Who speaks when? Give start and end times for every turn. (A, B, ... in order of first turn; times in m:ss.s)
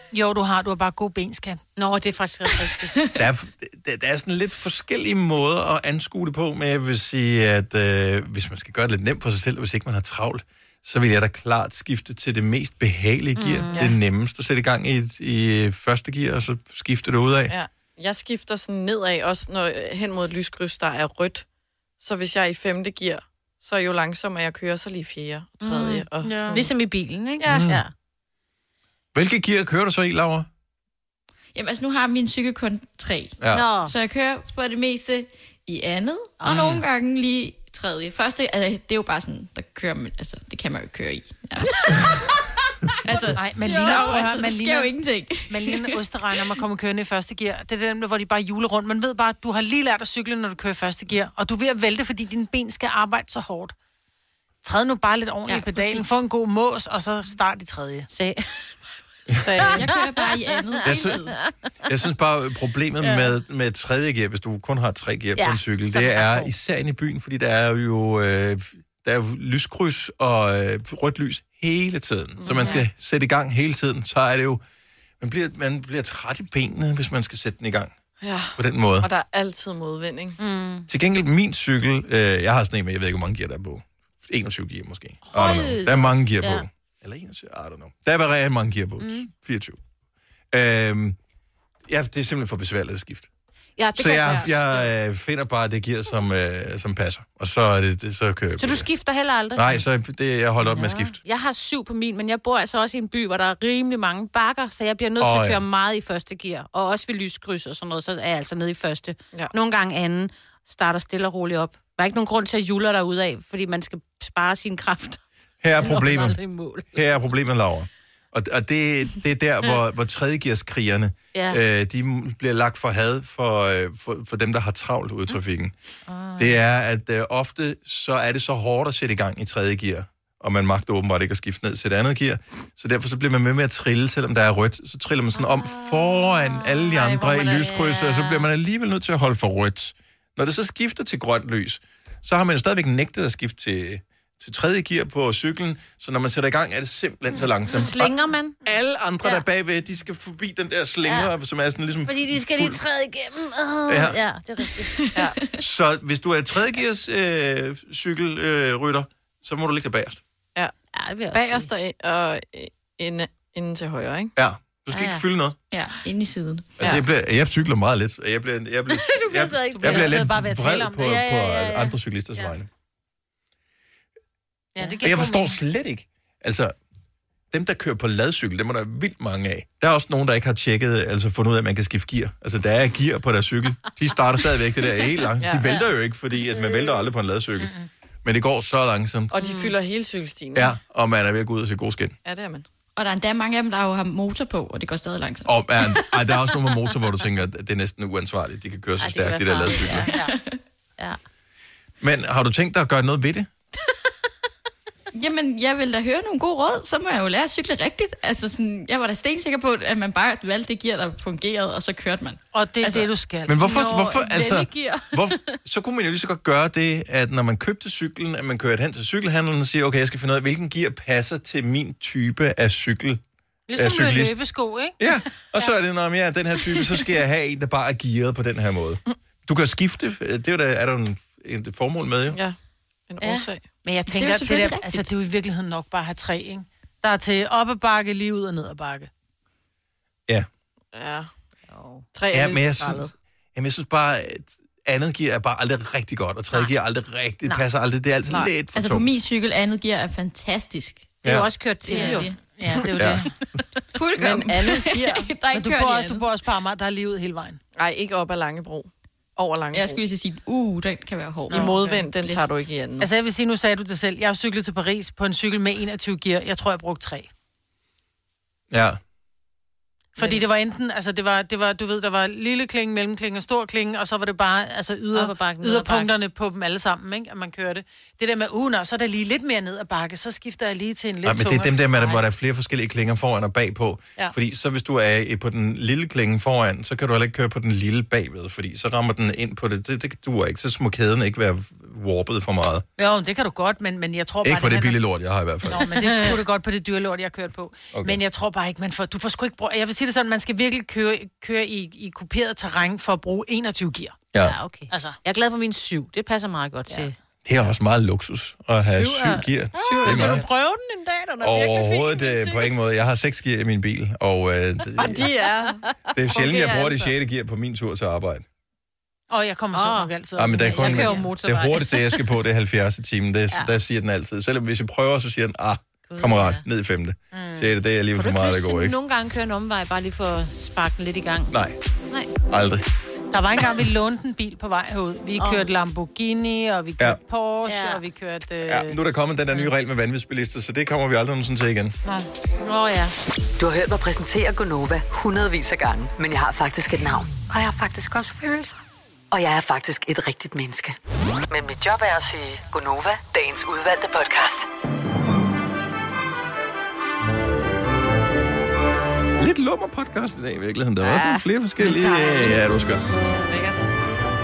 0:00.1-0:01.6 A
0:01.8-0:03.0 B
0:03.2-0:17.6 C
0:13.4-0:13.8 B
0:17.5-0:21.5 D
0:22.0-0:26.7 D
0:25.6-0:27.9 B
0:26.2-0:26.6 A
0:27.4-0:27.7 D
0:27.5-0:27.8 C
0:29.1-0:30.5 C
0:31.6-0:42.2 E
0:33.4-0:33.7 C
0:33.5-0:34.0 B
0:36.4-0:36.8 C
0:43.0-0:46.0 E
0:43.3-0:44.9 A
0:45.5-0:53.7 A
0:54.6-0:58.1 A
0:55.5-0:56.2 B
0:58.1-0:58.7 B
0:59.4-0:59.8 D
0:59.6-1:01.1 E
0:59.8-1:01.4 A
1:00.8-1:01.2 C
1:01.9-1:14.6 C
1:03.0-1:03.4 B
1:05.4-1:06.4 B
1:12.4-1:12.7 D
1:12.6-1:12.8 B
1:15.2-1:17.9 C
1:18.2-1:20.4 D
1:18.6-1:19.1 C
1:20.4-1:20.9 B
1:20.9-1:29.8 C
1:25.3-1:26.6 B
1:29.0-1:29.3 B
1:30.5-1:31.2 C
1:31.9-1:33.3 C
1:33.8-1:34.9 B
1:34.0-1:38.9 C
1:38.6-1:39.8 B
1:39.6-1:41.2 C
1:40.6-1:55.2 B
1:45.2-1:45.6 C
1:55.6-1:56.4 C
1:55.8-1:57.0 B
1:56.9-2:05.7 C
2:01.3-2:01.6 B
2:06.1-2:06.6 B
2:06.4-2:32.8 C
2:15.4-2:18.5 B
2:27.7-2:28.6 B
2:31.0-2:31.3 B
2:32.1-2:35.1 B
2:33.9-2:34.2 C
2:35.0-2:35.5 E
2:35.6-2:40.2 C
2:41.0-2:41.7 B
2:41.3-2:44.3 D
2:44.4-2:45.6 C
2:44.9-2:45.2 B
2:45.7-2:46.9 E
2:46.8-2:52.7 C
2:49.3-2:50.0 E
2:49.7-2:51.1 A
2:51.0-2:52.6 B
2:54.8-2:55.6 A
2:54.8-2:55.0 B
2:55.0-2:56.8 C
2:57.5-3:07.7 C
3:05.4-3:05.8 D
3:07.6-3:07.9 A
3:08.2-3:09.3 C
3:09.3-3:10.7 D
3:09.4-3:09.7 B
3:10.5-3:12.2 C
3:12.2-3:12.7 D
3:13.0-3:16.2 E
3:15.5-3:20.1 C
3:19.0-3:20.3 B
3:19.7-3:20.3 A
3:20.3-3:20.6 E
3:22.0-3:23.5 C
3:25.1-3:33.1 E
3:32.5-3:33.8 A
3:33.5-3:43.2 C
3:33.6-3:35.6 B
3:43.7-3:45.0 A
3:43.8-3:44.4 C
3:45.0-3:52.4 C
3:52.3-3:52.6 D
3:53.1-3:53.6 D
3:53.2-3:53.5 B
3:53.8-3:59.1 A
3:54.1-3:55.1 E
4:00.9-4:01.3 D
4:01.7-4:02.1 B
4:02.1-4:03.1 D
4:02.3-4:09.1 C
4:08.3-4:08.5 D
4:08.7-4:11.2 E
4:11.2-4:11.5 C
4:11.2-4:12.4 B
4:11.9-4:12.4 E
4:11.9-4:13.4 A
4:13.0-4:13.2 C
4:13.9-4:16.3 E
4:14.2-4:15.2 D
4:15.5-4:17.6 A
4:17.8-4:20.0 D
4:19.7-4:21.8 E
4:21.5-4:23.1 D
4:21.5-4:27.3 A
4:28.7-4:29.0 C
4:30.2-4:42.2 A
4:35.1-4:36.1 B
4:41.2-4:52.8 C
4:53.0-4:55.0 A
4:54.4-4:55.8 C
4:55.7-5:04.2 A
4:55.9-4:56.3 B
4:57.9-4:58.2 C
5:04.4-5:07.1 B
5:04.9-5:05.2 A
5:07.4-5:10.4 C
5:08.9-5:10.8 A
5:09.8-5:12.7 B
5:11.4-5:15.2 C
5:15.0-5:15.8 D
5:16.2-5:18.4 C
5:19.3-5:21.3 A
5:19.7-5:22.2 B
5:20.4-5:29.0 C
5:26.1-5:26.6 B
5:27.3-5:27.7 A
5:28.2-5:31.6 B
5:31.5-5:31.8 C
5:32.5-5:32.8 C
5:33.3-5:39.0 A
5:35.4-5:35.6 B
5:37.7-5:38.0 B
5:38.7-5:41.9 C
5:42.6-5:43.1 B
5:43.6-5:47.3 F
5:47.8-5:48.2 B
5:49.3-5:51.0 F
5:51.5-5:54.7 F
5:59.4-6:03.0 C
6:01.0-6:01.4 D
6:03.1-6:03.9 D